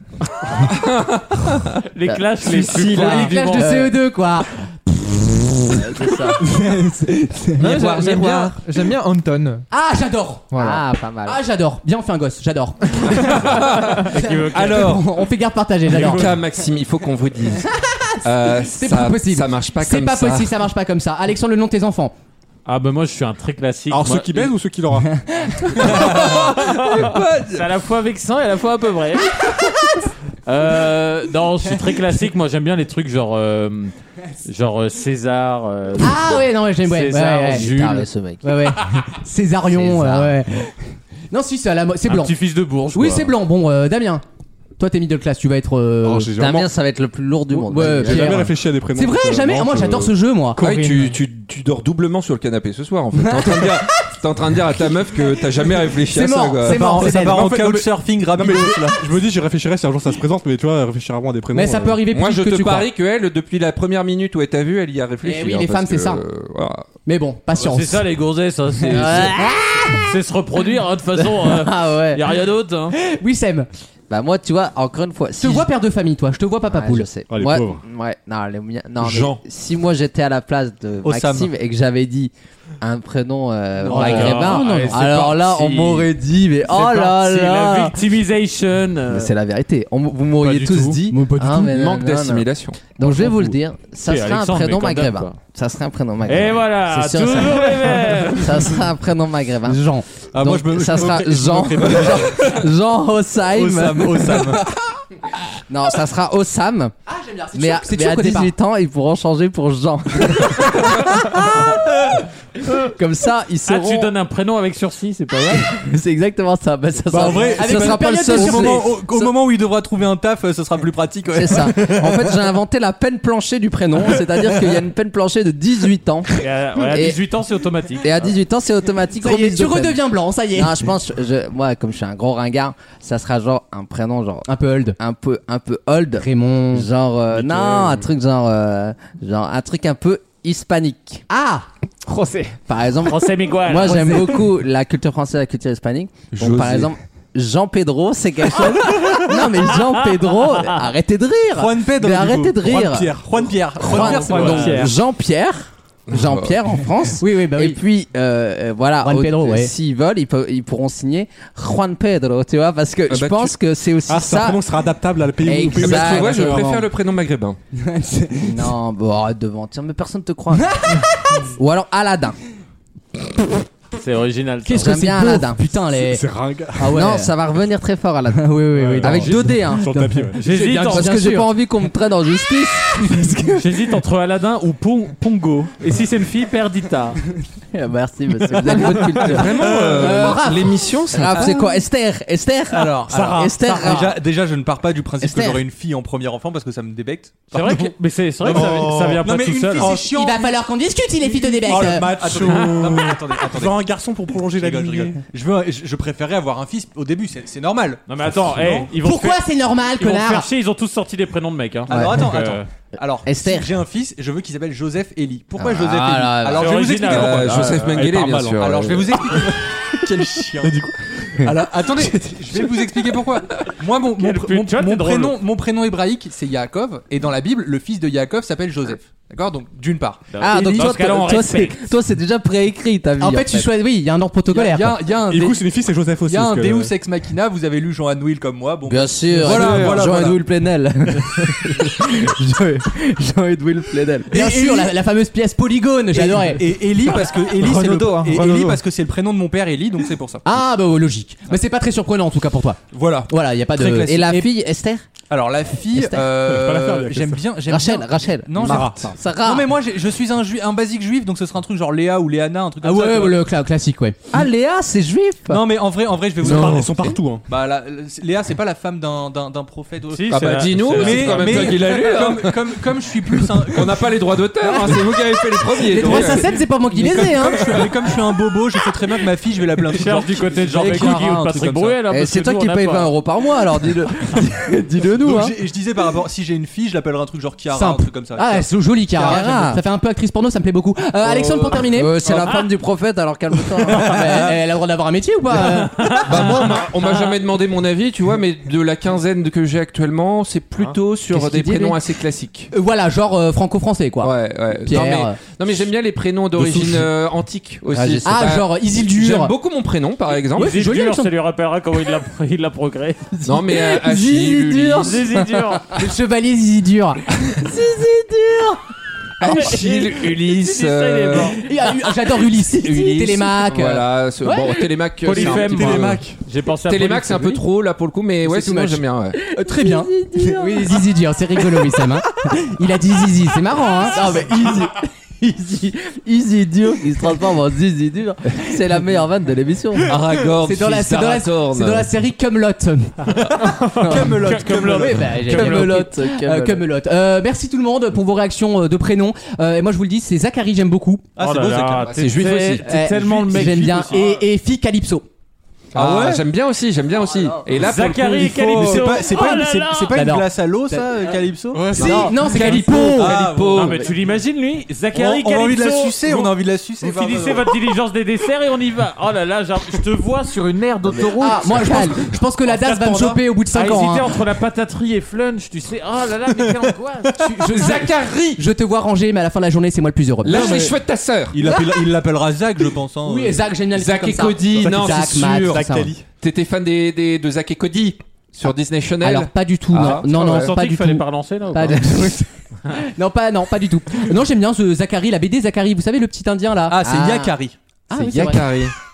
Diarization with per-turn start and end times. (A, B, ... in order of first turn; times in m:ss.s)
0:00.5-0:01.8 A
0:01.9-0:03.9 B
0:02.1-0:03.8 C
0:02.5-0:05.8 D
0:05.7-0:06.4 C
0:06.4-0:08.0 D
0:07.6-0:09.6 E
0:07.6-0:08.6 A
0:09.7-0:10.5 D
0:10.5-0:10.8 E
0:10.5-0:11.4 C
0:11.2-0:13.4 D
0:13.0-0:15.1 A
0:13.6-0:14.9 B
0:14.1-0:16.3 D
0:15.9-0:17.7 A
0:15.9-0:16.4 B
0:17.8-0:22.1 D
0:18.2-0:20.6 A
0:22.6-0:24.5 B
0:23.9-0:26.0 F
0:25.4-0:25.8 D
0:25.8-0:27.7 A
0:25.8-0:29.4 B
0:29.5-0:30.1 D
0:30.4-0:33.9 B
0:34.4-0:38.1 B
0:36.0-0:37.7 D
0:37.5-0:38.4 C
0:38.4-0:40.7 D
0:39.7-0:40.4 C
0:41.3-0:42.3 D
0:42.1-0:43.3 B
0:42.9-0:44.2 D
0:44.8-0:46.3 D
0:46.0-0:46.7 F
0:46.4-0:48.5 C
0:47.7-0:50.6 D
0:47.7-0:50.1 F
0:50.6-0:57.6 A
0:50.6-0:51.2 E
0:53.2-0:54.1 D
0:54.8-0:57.4 D
0:56.6-0:59.0 G
0:57.4-1:02.0 F
1:01.5-1:02.9 D
1:02.1-1:06.8 A
1:05.2-1:06.2 D
1:07.0-1:08.0 D
1:07.6-1:09.4 B
1:08.9-1:09.8 C
1:09.1-1:10.1 D
1:10.0-1:13.0 B
1:11.1-1:12.2 C
1:12.9-1:13.7 D
1:14.1-1:15.7 C
1:15.4-1:17.1 D
1:16.7-1:28.0 C
1:17.3-1:17.8 F
1:19.0-1:19.4 A
1:21.0-1:21.5 G
1:23.8-1:25.1 D
1:23.9-1:26.1 B
1:26.7-1:29.3 B
1:29.1-1:39.8 C
1:30.4-1:31.0 B
1:31.1-1:31.7 D
1:31.6-1:32.8 A
1:34.0-1:35.3 B
1:36.3-1:38.8 B
1:39.6-1:40.0 D
1:40.3-1:42.6 G
1:40.4-1:44.7 C
1:43.5-1:44.7 G
1:45.6-1:46.9 C
1:47.0-1:48.5 D
1:47.5-1:51.9 C
1:52.8-1:54.1 C
1:53.6-1:55.7 B
1:55.5-1:59.3 C
1:57.1-2:02.4 G
1:57.6-1:58.9 D
2:01.3-2:07.2 C
2:06.4-2:08.1 B
2:08.0-2:21.2 C
2:09.2-2:10.8 D
2:14.4-2:15.0 D
2:16.2-2:16.9 D
2:21.3-2:21.7 D
2:22.1-2:22.5 E
2:22.7-2:33.1 C
2:23.0-2:24.2 B
2:23.8-2:24.4 D
2:26.4-2:26.8 A
2:29.6-2:29.9 B
2:31.5-2:35.0 G
2:32.8-2:33.5 F
2:33.8-2:44.6 C
2:33.8-2:34.9 B
2:36.1-2:36.5 A
2:37.2-2:37.8 D
2:39.0-2:39.7 D
2:43.1-2:43.5 A
2:44.1-2:46.7 F
2:45.4-2:46.9 C
2:45.7-2:47.6 A
2:47.7-2:48.6 D
2:48.4-2:50.9 C
2:50.5-2:51.5 D
2:51.5-2:52.4 C
2:53.9-2:55.0 B
2:54.6-2:56.2 D
2:54.8-2:55.6 C
2:55.9-2:57.0 F
2:56.8-2:57.3 D
2:56.9-3:03.7 C
2:58.3-2:59.4 D
2:58.7-3:00.4 F
3:00.4-3:01.2 B
3:00.4-3:01.5 D
3:03.6-3:07.2 B
3:07.7-3:09.7 C
3:08.5-3:10.8 D
3:09.2-3:11.5 A
3:11.1-3:14.2 C
3:12.7-3:20.6 G
3:13.1-3:14.1 B
3:15.2-3:15.6 C
3:17.5-3:19.9 B
3:18.5-3:19.2 F
3:19.8-3:22.2 D
3:21.3-3:25.2 F
3:21.6-3:23.9 G
3:22.4-3:23.1 B
3:24.5-3:28.9 G
3:28.1-3:29.4 B
3:29.0-3:30.5 D
3:30.0-3:32.7 B
3:31.9-3:37.8 G
3:31.9-3:32.2 C
3:33.2-3:33.7 C
3:35.6-3:37.1 C
3:36.6-3:37.9 B
3:37.0-3:39.0 A
3:37.8-3:40.1 F
3:38.6-3:40.8 G
3:40.6-3:41.5 F
3:41.4-3:51.1 G
3:44.2-3:45.4 B
3:50.3-3:51.8 B
3:50.4-3:53.7 C
3:53.2-3:55.0 D
3:54.5-4:00.4 G
3:55.2-3:56.9 F
3:58.8-4:04.4 C
3:59.5-3:59.9 A
4:04.3-4:04.9 G
4:04.3-4:06.6 D
4:06.1-4:10.4 G
4:07.8-4:08.0 F
4:08.0-4:08.3 E
4:10.4-4:14.5 D
4:12.9-4:14.2 G
4:14.0-4:15.1 C
4:15.3-4:23.4 G
4:15.9-4:16.2 C
4:16.1-4:17.0 A
4:16.4-4:17.4 F
4:17.7-4:19.7 C
4:18.6-4:19.2 F
4:22.8-4:24.2 D
4:24.3-4:25.6 C
4:25.5-4:34.0 G
4:26.4-4:27.4 F
4:26.4-4:26.9 C
4:30.1-4:31.7 B
4:30.3-4:32.8 A
4:33.6-4:36.5 A
4:34.6-4:35.2 D
4:35.8-4:37.8 D
4:36.0-4:42.0 G
4:39.9-4:43.1 B
4:42.1-4:45.6 C
4:45.1-4:49.7 G
4:47.7-4:52.2 D
4:49.2-4:49.8 C
4:51.2-4:54.5 C
4:52.4-4:52.6 B
4:53.9-4:56.3 D
4:55.6-4:57.3 B
4:56.2-5:02.7 A
5:01.3-5:01.9 D
5:01.3-5:01.9 C
5:02.7-5:05.4 D
5:04.2-5:10.7 A
5:07.9-5:08.5 C
5:08.2-5:09.5 D
5:10.5-5:13.2 B
5:10.5-5:11.3 D
5:13.3-5:15.1 D
5:13.4-5:15.2 A
5:14.1-5:15.0 C
5:15.0-5:15.9 B
5:15.9-5:17.2 D
5:17.6-5:18.8 C
5:19.4-5:21.6 A
5:19.4-5:21.6 B
5:21.6-5:24.8 D
5:22.7-5:26.2 A
5:25.2-5:27.6 B
5:25.6-5:26.0 G
5:26.8-5:29.4 A
5:28.4-5:34.4 D
5:29.3-5:31.1 C
5:34.1-5:40.2 C
5:40.0-5:42.1 A
5:40.6-5:43.1 D
5:43.3-5:45.3 G
5:43.6-5:46.0 B
5:44.8-5:51.2 D
5:45.4-5:46.8 C
5:51.4-5:52.2 G
5:51.4-5:54.1 B
5:52.0-5:52.9 A
5:52.8-5:55.2 D
5:53.1-5:54.4 G
5:55.9-5:56.4 G
5:55.9-5:59.0 A
5:57.2-5:57.7 C
5:57.7-6:00.2 B
5:58.4-6:04.4 G
6:00.1-6:01.1 D
6:01.7-6:02.2 F
6:01.9-6:03.4 D
6:01.9-6:04.1 A
6:03.7-6:12.0 B
6:05.1-6:07.7 G
6:11.4-6:14.3 D
6:11.7-6:13.4 G
6:13.7-6:18.0 B
6:16.5-6:18.3 G
6:17.4-6:20.8 D
6:18.1-6:18.5 A
6:20.4-6:21.8 A
6:20.5-6:20.9 G
6:21.5-6:23.8 G
6:21.6-6:22.0 D
6:23.2-6:26.1 D
6:23.9-6:30.7 A
6:24.7-6:26.2 G
6:29.2-6:37.0 D
6:30.4-6:32.1 B
6:36.9-6:37.8 G
6:37.0-6:37.6 C
6:38.1-6:38.6 D
6:38.1-6:38.9 A